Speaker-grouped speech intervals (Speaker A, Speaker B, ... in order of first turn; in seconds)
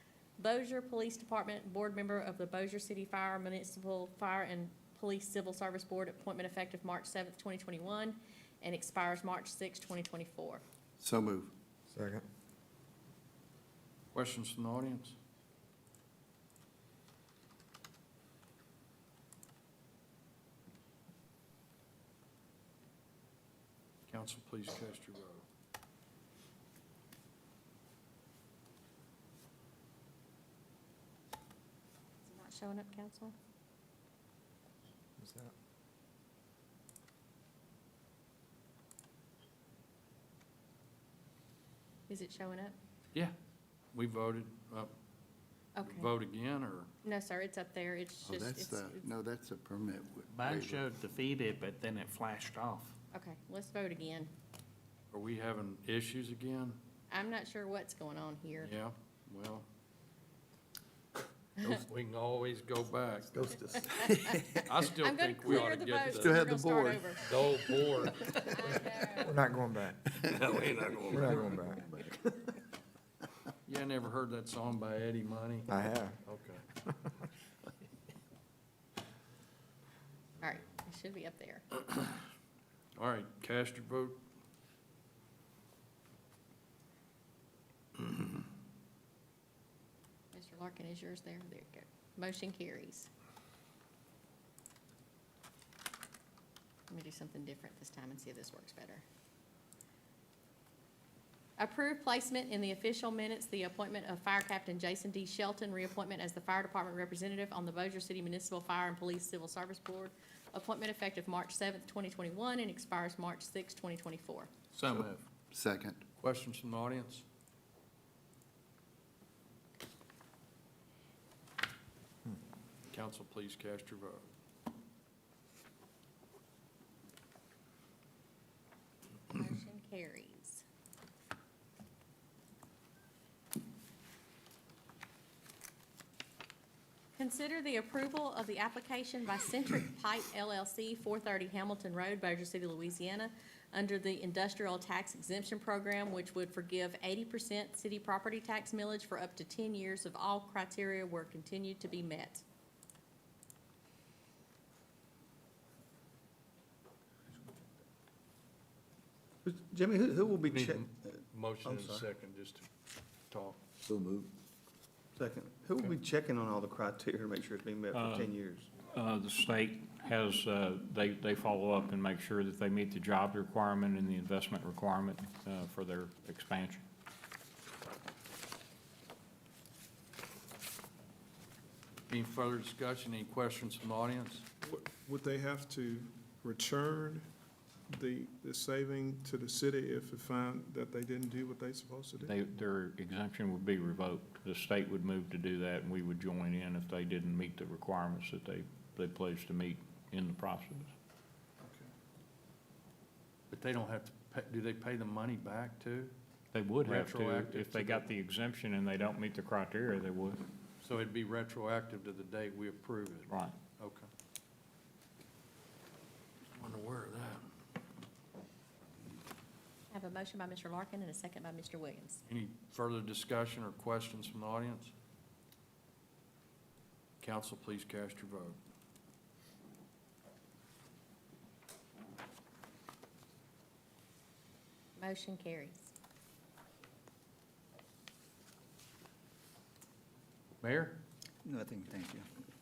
Speaker A: 0.4-10.6, 32.2-33.4, 42.1-42.8, 45.8-46.1, 47.0-49.1, 53.1-54.3, 57.1-58.7, 63.8-67.2, 68.3-69.3, 80.4-81.7, 90.3-93.1, 96.9-99.0, 101.6-114.5, 129.3-130.6, 137.2-152.4, 219.9-222.2, 235.0-235.9
Speaker B: 11.0-11.5, 48.2-51.0, 64.3-64.6, 66.2-67.1, 71.4-71.8, 114.8-116.0, 163.9-164.3, 241.4-242.3
Speaker C: 11.9-12.2, 35.2-35.5, 69.2-70.2, 71.1-71.8, 75.7-76.2, 76.8-77.2
Speaker D: 14.1-15.2, 24.1-25.4, 43.9-44.9, 45.8-46.9, 55.1-56.8, 58.6-59.6, 61.6-63.4, 64.6-66.4, 67.2-69.0, 70.3-71.4, 73.7-75.7, 76.2-76.7, 83.0-84.2, 114.8-115.1, 116.2-117.2, 122.9-124.2, 160.4-162.7, 163.3-163.6, 182.1-184.5, 203.5-206.1, 206.8-208.1, 210.8-214.1, 216.5-217.5, 222.3-224.9, 227.2-228.6, 240.6-241.0
Speaker E: 50.3-53.0
Speaker F: 63.3-64.4, 70.4-71.3, 159.4-161.1, 161.6-162.1, 165.2-168.7
Speaker G: 167.9-168.3, 168.9-176.8, 192.2-200.9, 206.5-210.4, 213.3-213.6
Speaker H: 184.6-187.3, 187.9-192.3